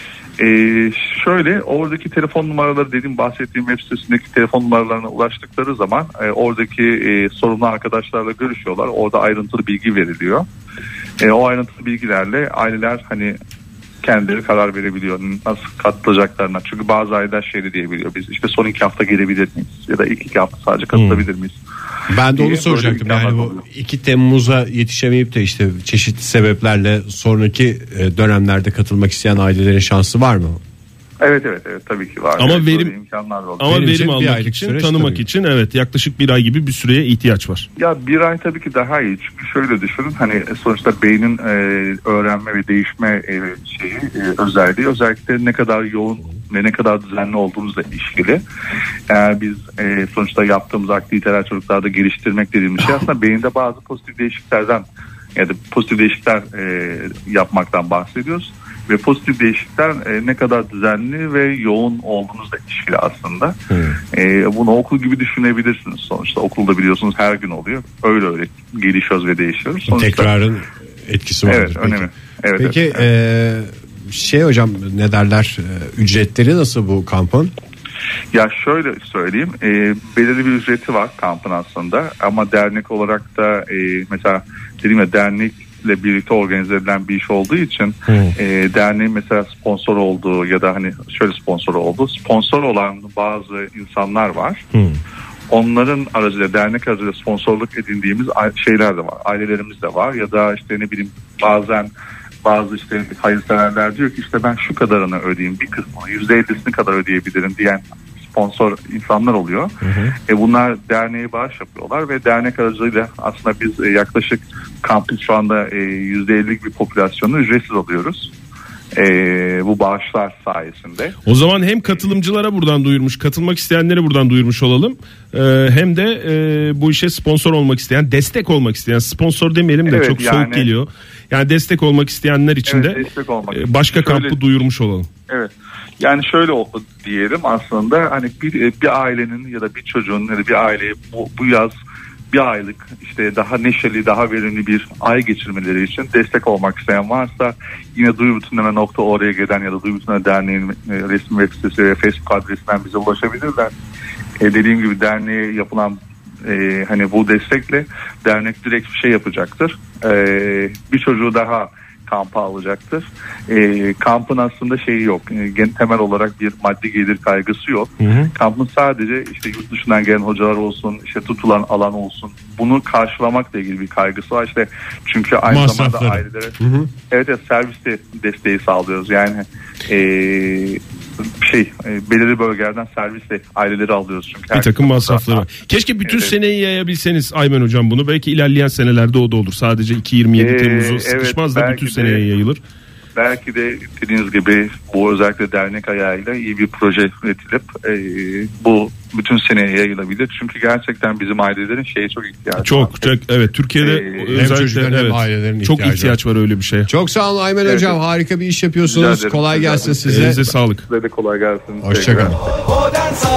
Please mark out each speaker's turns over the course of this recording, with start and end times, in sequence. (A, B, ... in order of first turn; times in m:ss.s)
0:00.4-0:10.5 A
0:11.2-0:13.4 A
0:14.0-0:21.6 A
0:20.9-0:21.2 B
0:22.1-0:30.6 C
0:22.3-0:23.6 A
0:31.2-0:33.7 A
0:32.4-0:32.9 B
0:33.6-0:37.6 B
0:33.6-0:35.2 C
0:37.8-0:48.4 A
0:49.1-0:54.8 A
0:55.4-1:03.6 A
1:03.7-1:04.0 B
1:04.1-1:10.3 A
1:09.9-1:17.5 C
1:11.5-1:13.1 A
1:18.3-1:34.6 A
1:28.1-1:28.3 B
1:34.7-1:35.0 B
1:35.5-1:41.9 A
1:42.4-1:49.7 A
1:49.8-1:50.1 B
1:50.3-1:58.3 A
1:58.9-2:01.2 A
2:01.2-2:15.1 B
2:09.9-2:10.7 A
2:12.6-2:14.4 A
2:15.3-2:21.7 A
2:22.3-2:33.7 A
2:34.4-2:56.5 A
2:48.0-2:48.3 B
2:55.5-2:56.9 C
2:57.1-3:00.8 A
3:01.4-3:05.4 A
3:04.5-3:12.6 B
3:06.0-3:06.3 A
3:10.4-3:12.3 A
3:13.2-3:23.1 A
3:22.6-3:26.9 B
3:23.8-3:24.4 A
3:24.3-3:26.2 C
3:26.8-3:30.4 C
3:27.6-3:28.0 A
3:28.8-3:32.6 A
3:30.0-3:30.8 B
3:31.8-3:32.4 C